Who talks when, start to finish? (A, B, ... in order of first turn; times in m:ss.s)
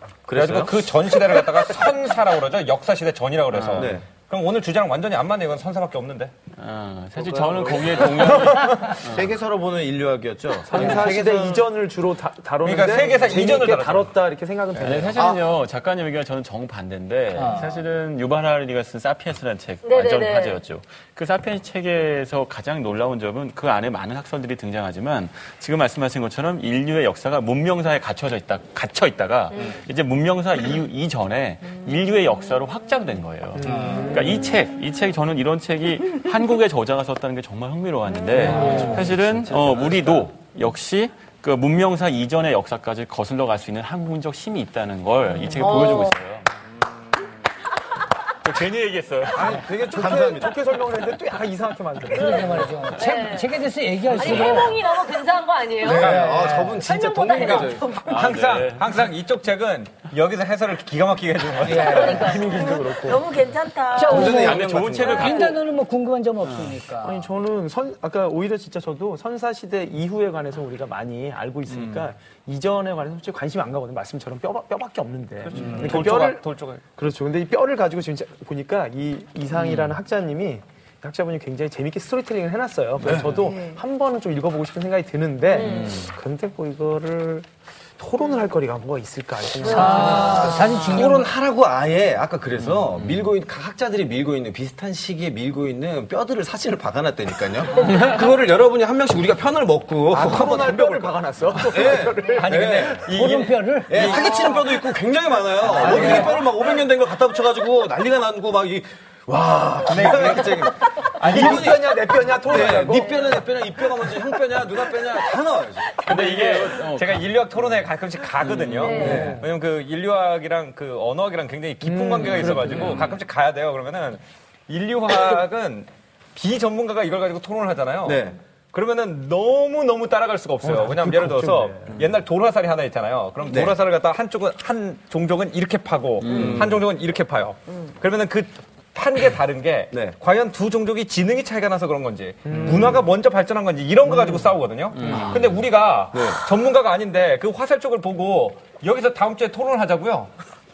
0:00.3-0:00.9 A
0:00.3-0:06.3 B
0:03.5-0:03.9 C
0:03.8-0:04.0 A
0:06.5-0:09.3 C
0:07.2-0:11.6 A
0:08.1-0:09.0 B
0:10.6-0:15.3 D
0:12.6-0:14.1 B
0:14.8-0:46.5 C
0:15.1-0:15.4 A
0:17.4-0:17.7 E
0:19.8-0:20.6 F
0:29.5-0:29.8 F
0:33.6-0:34.2 E
0:33.6-0:34.5 D
0:38.3-0:40.2 D
0:38.4-0:39.0 E
0:45.6-0:46.2 F
0:48.4-0:49.6 C
0:49.4-0:50.6 A
0:49.4-0:52.7 D
0:52.1-0:54.8 E
0:52.2-0:53.5 F
0:54.1-0:58.1 F
0:55.8-0:58.0 A
0:56.0-0:56.8 E
0:57.3-0:58.0 G
0:58.0-0:58.9 C
0:58.1-1:02.2 B
1:01.6-1:02.4 E
1:01.7-1:03.2 D
1:01.8-1:02.7 F
1:02.3-1:05.5 G
1:03.9-1:07.2 E
1:04.0-1:05.3 A
1:04.2-1:05.5 C
1:06.4-1:06.7 C
1:07.0-1:16.4 D
1:11.7-1:12.1 C
1:15.4-1:16.8 B
1:15.5-1:16.0 E
1:17.0-1:27.4 D
1:19.5-1:20.0 C
1:23.0-1:23.3 A
1:23.3-1:23.8 G
1:25.5-1:26.0 F
1:25.6-1:26.1 C
1:28.0-1:30.7 D
1:29.6-1:31.3 E
1:29.7-1:30.1 G
1:30.4-1:43.1 A
1:32.6-1:33.3 C
1:40.1-1:42.7 D
1:42.3-1:44.4 B
1:43.0-1:44.1 E
1:43.9-1:51.9 A
1:44.1-1:44.7 F
1:45.7-1:46.3 E
1:45.7-1:46.3 D
1:45.8-1:46.2 B
1:49.9-1:50.4 B
1:49.9-1:50.7 D
1:51.2-1:51.8 B
1:51.2-1:53.3 D
1:52.4-1:56.0 A
1:52.9-1:53.4 F
1:56.0-1:59.0 C
1:56.0-2:30.3 B
1:58.8-1:59.3 F
1:58.9-1:59.4 A
1:58.9-1:59.4 D
2:01.8-2:03.0 D
2:02.2-2:03.2 C
2:08.0-2:08.4 A
2:10.6-2:12.0 D
2:13.5-2:13.8 A
2:16.2-2:16.8 C
2:16.2-2:16.8 A
2:19.9-2:20.2 A
2:22.4-2:23.0 D
2:24.9-2:25.7 C
2:25.0-2:25.3 D
2:26.1-2:26.4 A